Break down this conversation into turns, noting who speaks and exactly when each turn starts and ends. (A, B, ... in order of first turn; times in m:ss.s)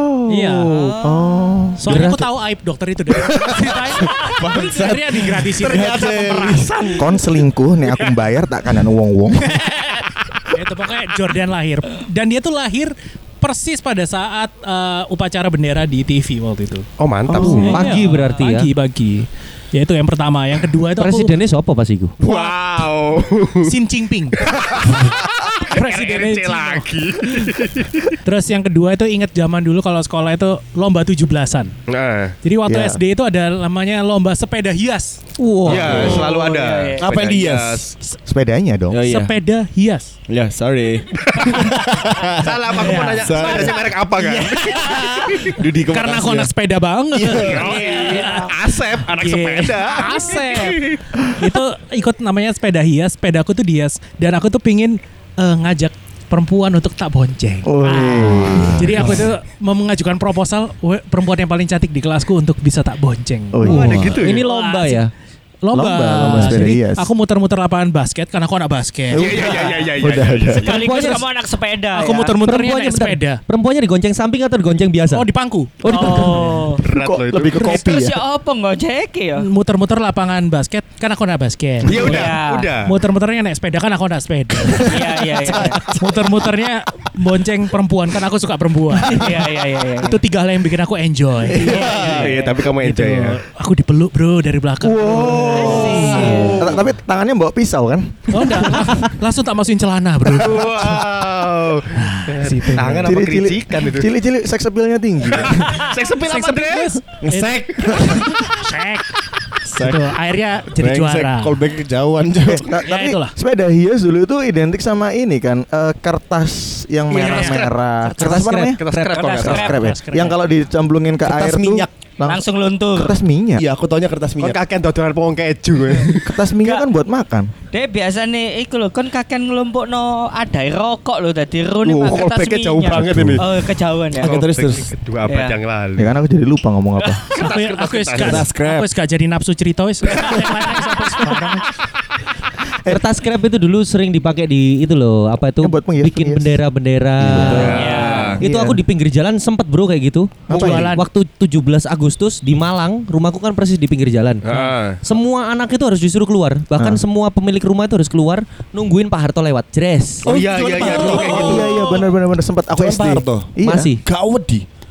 0:00.2-0:01.0 A
0:00.7-0:01.0 B
0:00.9-0:01.2 C
0:01.0-0:02.0 D
0:01.8-0:06.6 A
0:01.8-0:02.3 C
0:03.2-0:06.8 E
0:05.6-0:07.2 F
0:07.0-0:09.6 D
0:09.5-0:16.9 A
0:17.0-0:17.8 F
0:17.3-0:17.8 D
0:17.3-0:18.7 C
0:17.4-0:21.3 A
0:21.0-0:22.1 C
0:22.2-0:23.7 F
0:22.2-0:22.6 A
0:23.6-0:24.4 A
0:24.5-0:28.2 F
0:25.7-0:26.9 A
0:28.2-0:31.7 A
0:31.9-0:32.3 F
0:32.4-0:35.2 A
0:32.6-0:33.0 D
0:35.4-0:36.1 C
0:35.6-0:37.9 F
0:35.9-0:37.0 B
0:35.9-0:36.2 E
0:37.0-0:38.1 E
0:38.2-0:39.0 D
0:38.9-0:39.3 E
0:39.1-0:40.1 A
0:40.3-0:42.6 E
0:41.2-0:41.7 F
0:42.2-0:46.1 F
0:42.7-1:05.0 A
0:43.2-0:43.8 E
0:45.5-0:46.5 E
0:47.1-0:47.8 E
0:47.2-0:51.0 F
0:47.6-0:48.4 B
0:57.6-0:59.2 D
0:58.2-0:59.1 C
1:03.5-1:04.2 D
1:03.6-1:05.1 C
1:03.6-1:04.4 F
1:05.6-1:09.6 A
1:05.7-1:07.1 D
1:06.0-1:06.7 C
1:09.1-1:10.7 F
1:09.1-1:10.6 D
1:10.6-1:12.4 B
1:10.7-1:11.2 C
1:10.9-1:11.2 A
1:11.9-1:13.4 A
1:12.4-1:15.3 C
1:15.1-1:16.6 A
1:15.8-1:16.8 B
1:15.9-1:16.5 C
1:16.8-1:17.8 F
1:16.8-1:18.2 D
1:17.6-1:19.4 B
1:19.4-1:22.3 A
1:21.8-1:22.9 F
1:21.9-1:22.7 B
1:22.8-1:36.5 A
1:24.8-1:25.8 B
1:25.4-1:26.5 E
1:29.0-1:30.2 B
1:31.5-1:32.6 B
1:31.6-1:33.4 F
1:34.8-1:38.9 D
1:35.2-1:36.8 F
1:35.5-1:36.6 B
1:38.3-1:41.0 A
1:40.3-1:44.1 F
1:41.9-1:43.0 A
1:43.0-1:45.9 D
1:45.3-1:47.0 F
1:45.8-1:49.1 A
1:47.2-1:48.2 E
1:49.6-1:50.1 E
1:49.7-1:51.6 A
1:50.7-1:52.7 E
1:52.4-1:58.8 D
1:52.8-1:53.3 A
1:57.1-1:57.7 F
1:57.2-1:57.6 A
1:58.0-1:59.3 C
1:58.8-1:59.8 F
1:59.0-1:59.8 B
1:59.4-2:02.4 D
1:59.4-2:00.4 A
2:01.2-2:01.9 E
2:02.2-2:03.2 B
2:02.9-2:03.6 D
2:03.6-2:04.6 E
2:04.4-2:06.3 F
2:06.0-2:07.5 D
2:07.7-2:14.3 B
2:11.8-2:13.6 F
2:12.9-2:13.4 E
2:14.2-2:16.1 F
2:14.2-2:14.9 E
2:15.3-2:15.5 B
2:16.0-2:17.2 D
2:17.3-2:21.7 A
2:17.3-2:18.4 F
2:18.2-2:18.9 E
2:22.8-2:40.3 C
2:25.6-2:26.6 D
2:27.2-2:27.8 D
2:27.3-2:28.3 E
2:27.5-2:28.4 F
2:27.7-2:28.4 B
2:28.4-2:28.8 D
2:30.5-2:31.0 D
2:30.5-2:31.1 A
2:34.4-2:35.0 F
2:36.8-2:37.0 D
2:40.2-2:41.8 F
2:40.2-2:41.8 E
2:40.8-2:43.9 D
2:42.8-2:44.6 E
2:43.6-2:44.0 C